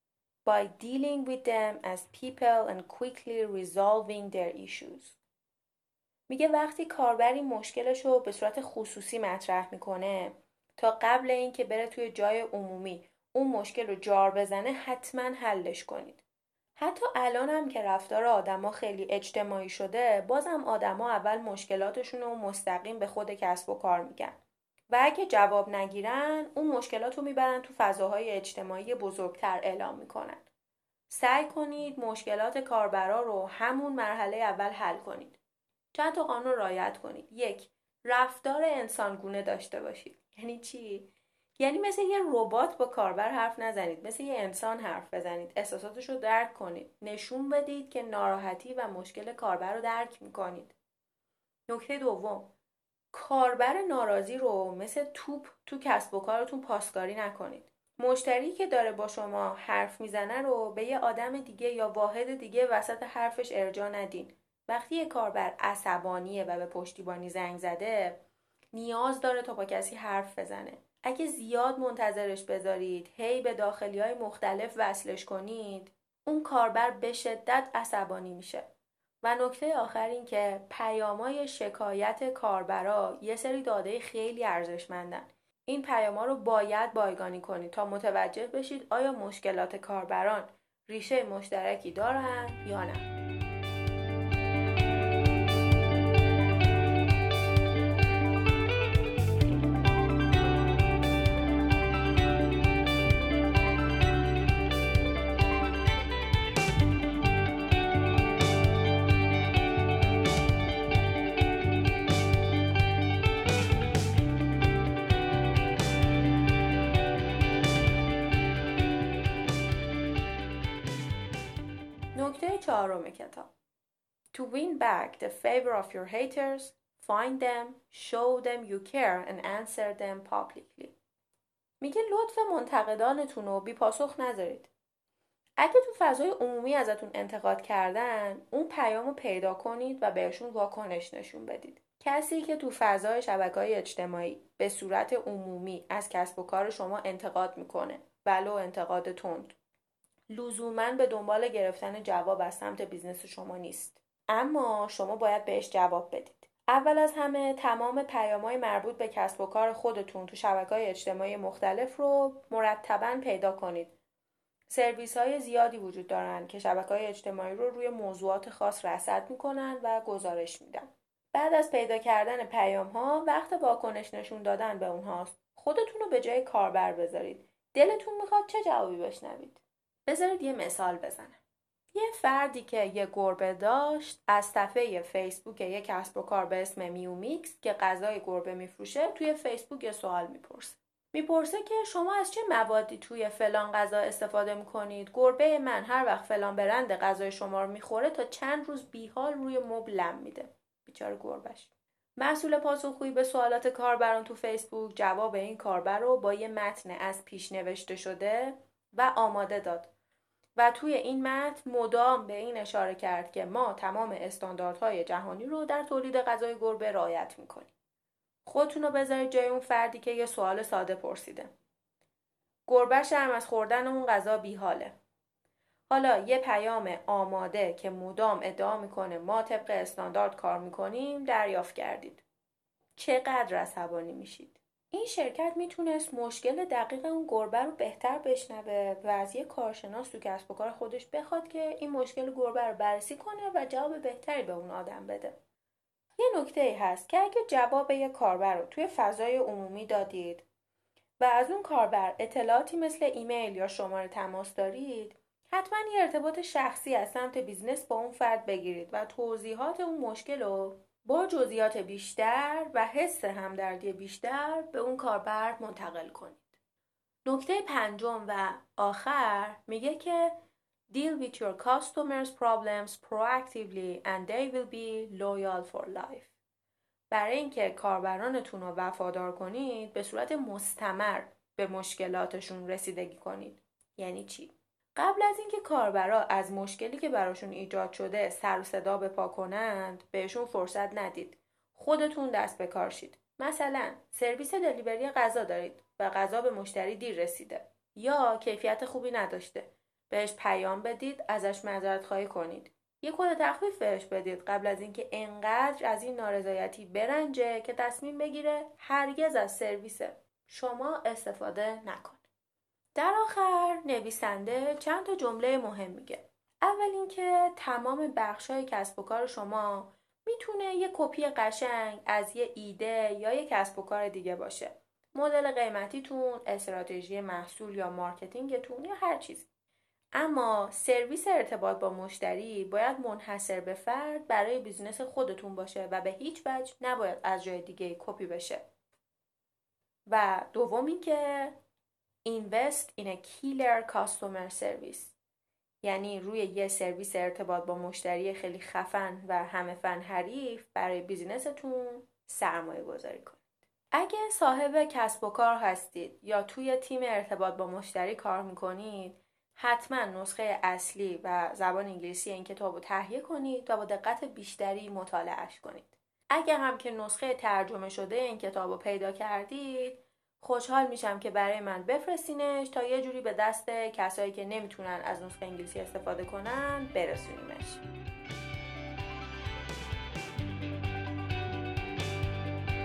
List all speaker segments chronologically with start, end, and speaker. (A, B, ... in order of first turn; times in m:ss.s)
0:00.4-0:05.2 A
0:06.3-0:16.2 A
0:16.8-0:24.4 A
0:24.9-0:30.4 A
0:31.1-0:35.4 A
0:35.9-0:50.8 A
0:51.7-0:52.5 A
0:53.1-1:08.2 A
1:08.7-1:18.7 A
1:19.2-1:33.1 A
2:02.1-2:03.5 A
2:04.3-2:11.0 A
2:11.8-2:14.7 A
2:15.6-2:29.6 A
2:30.3-2:43.9 A
2:44.7-3:01.4 A
3:01.9-3:29.9 A
3:30.6-3:37.7 A
3:38.5-3:41.5 A
3:42.7-3:44.9 A
3:45.9-3:52.2 A
3:53.0-4:05.4 A
4:06.2-4:10.4 A
4:11.2-4:26.5 A
4:27.3-4:30.4 A
4:30.9-4:36.3 A
4:37.1-5:12.2 A
5:13.0-5:29.5 A
5:30.2-5:38.6 A
5:40.1-5:41.6 A
5:42.2-5:45.2 A
5:45.8-6:17.8 A